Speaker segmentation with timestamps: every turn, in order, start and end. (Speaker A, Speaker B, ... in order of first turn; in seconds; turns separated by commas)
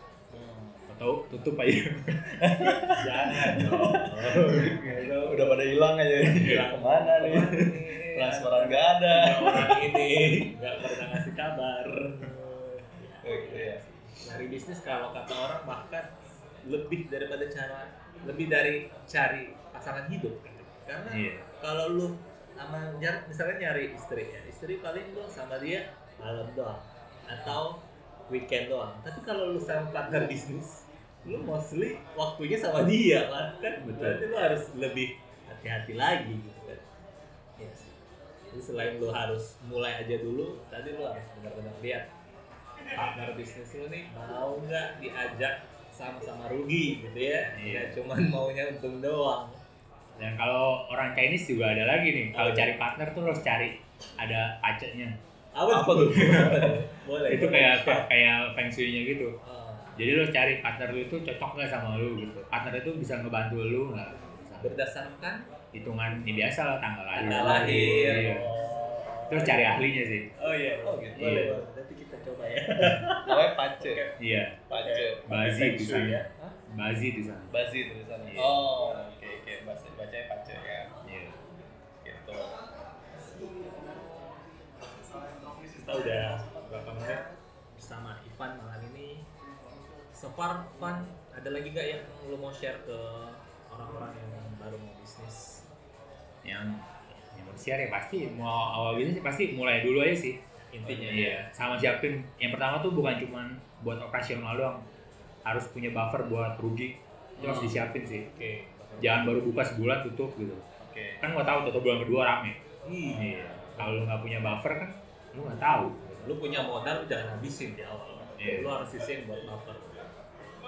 Speaker A: 0.3-0.9, Speaker B: 0.9-4.8, Speaker A: 2.4-11.2, Speaker C: 3.0-16.1, Speaker A: 13.2-13.8, Speaker C: 16.6-36.8, Speaker B: 21.1-21.5, Speaker B: 31.2-31.5, Speaker B: 33.8-34.6, Speaker C: 37.6-38.0, Speaker C: 38.5-42.1, Speaker C: 42.9-49.6, Speaker B: 47.5-48.0, Speaker B: 50.2-55.2, Speaker C: 52.3-52.7, Speaker C: 55.5-58.1, Speaker A: 55.7-56.8, Speaker B: 56.2-59.4, Speaker C: 59.4-60.0, Speaker B: 60.0-64.8, Speaker C: 64.6-65.5, Speaker B: 65.7-68.5, Speaker C: 67.2-69.8, Speaker A: 67.2-68.7, Speaker B: 69.3-70.3, Speaker C: 70.4-74.2, Speaker A: 70.8-71.7, Speaker B: 71.2-71.5, Speaker A: 73.2-74.1, Speaker B: 74.2-74.6, Speaker C: 74.7-75.1, Speaker A: 74.7-76.6, Speaker B: 75.3-77.6, Speaker A: 77.5-80.9, Speaker B: 78.2-78.7, Speaker B: 81.0-81.4, Speaker A: 82.0-82.6, Speaker C: 85.7-89.3, Speaker C: 90.1-95.7, Speaker B: 96.4-100.4, Speaker C: 100.7-101.5, Speaker A: 100.9-101.4, Speaker B: 101.0-104.8, Speaker B: 105.5-108.3, Speaker A: 107.4-107.8, Speaker C: 107.4-107.8, Speaker C: 108.3-109.0, Speaker B: 109.0-110.6, Speaker A: 109.0-109.3, Speaker A: 110.8-111.2, Speaker B: 111.2-116.3, Speaker C: 112.8-114.1, Speaker C: 116.2-120.1, Speaker B: 118.4-118.8